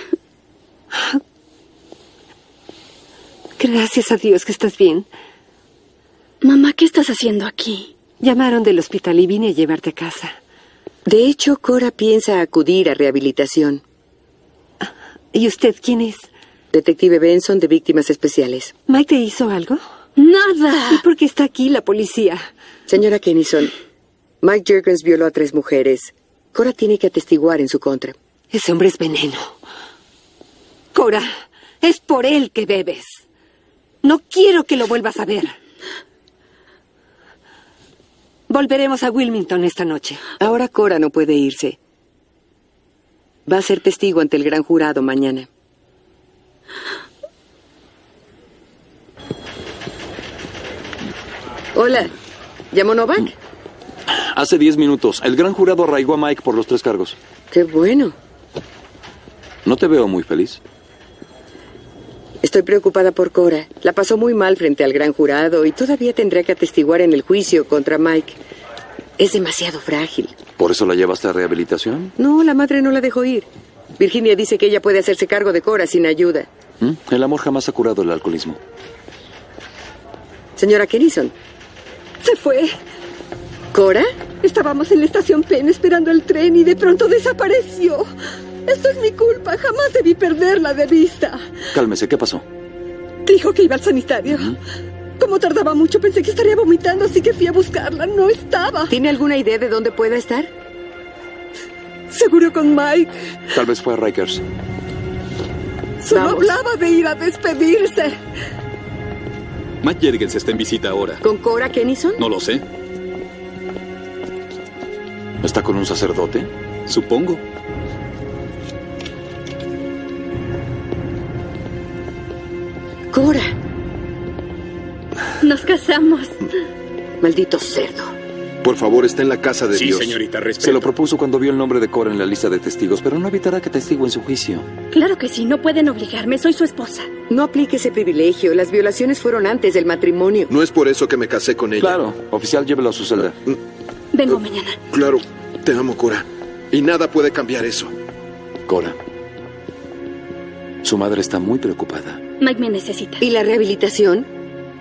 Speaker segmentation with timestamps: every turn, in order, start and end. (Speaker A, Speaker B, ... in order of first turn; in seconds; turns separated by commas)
Speaker A: 3.6-5.1, Speaker B: 6.4-7.9, Speaker A: 8.2-10.4, Speaker C: 11.1-13.8, Speaker A: 14.8-16.3, Speaker C: 16.7-18.7, Speaker A: 18.9-19.8, Speaker B: 20.2-21.0, Speaker A: 20.9-22.5, Speaker C: 22.9-23.7, Speaker C: 24.4-28.1, Speaker A: 28.5-29.6, Speaker A: 30.9-33.2, Speaker A: 34.0-35.6, Speaker A: 38.5-40.3, Speaker C: 40.4-41.8, Speaker C: 43.5-45.5, Speaker C: 51.8-52.1, Speaker C: 52.7-53.4, Speaker D: 54.1-57.2, Speaker C: 57.5-58.1, Speaker D: 59.6-60.6, Speaker C: 62.4-68.4, Speaker C: 69.2-70.3, Speaker D: 70.6-72.2, Speaker C: 72.2-76.5, Speaker D: 76.8-78.6, Speaker C: 80.6-81.3, Speaker A: 82.2-82.7, Speaker C: 83.7-84.1, Speaker A: 84.4-88.1, Speaker A: 88.7-91.5, Speaker D: 91.7-92.5, Speaker A: 93.3-94.6, Speaker A: 95.2-99.0, Speaker C: 98.9-100.5, Speaker A: 102.1-103.1, Speaker D: 103.5-104.5, Speaker A: 106.0-108.2, Speaker C: 106.1-106.5, Speaker E: 109.8-111.2, Speaker C: 111.2-112.2, Speaker E: 112.2-112.6, Speaker D: 115.4-116.5, Speaker E: 116.9-117.4, Speaker C: 123.1-123.5, Speaker B: 125.4-126.5, Speaker C: 127.2-128.1, Speaker F: 128.6-130.2, Speaker E: 129.8-130.9, Speaker D: 130.6-134.7, Speaker B: 134.9-137.1, Speaker C: 137.3-140.5, Speaker F: 140.5-142.0, Speaker D: 141.8-143.4, Speaker B: 144.1-144.8, Speaker F: 144.9-147.9, Speaker D: 148.7-149.0, Speaker D: 150.8-152.2, Speaker B: 152.4-153.2, Speaker C: 153.2-154.3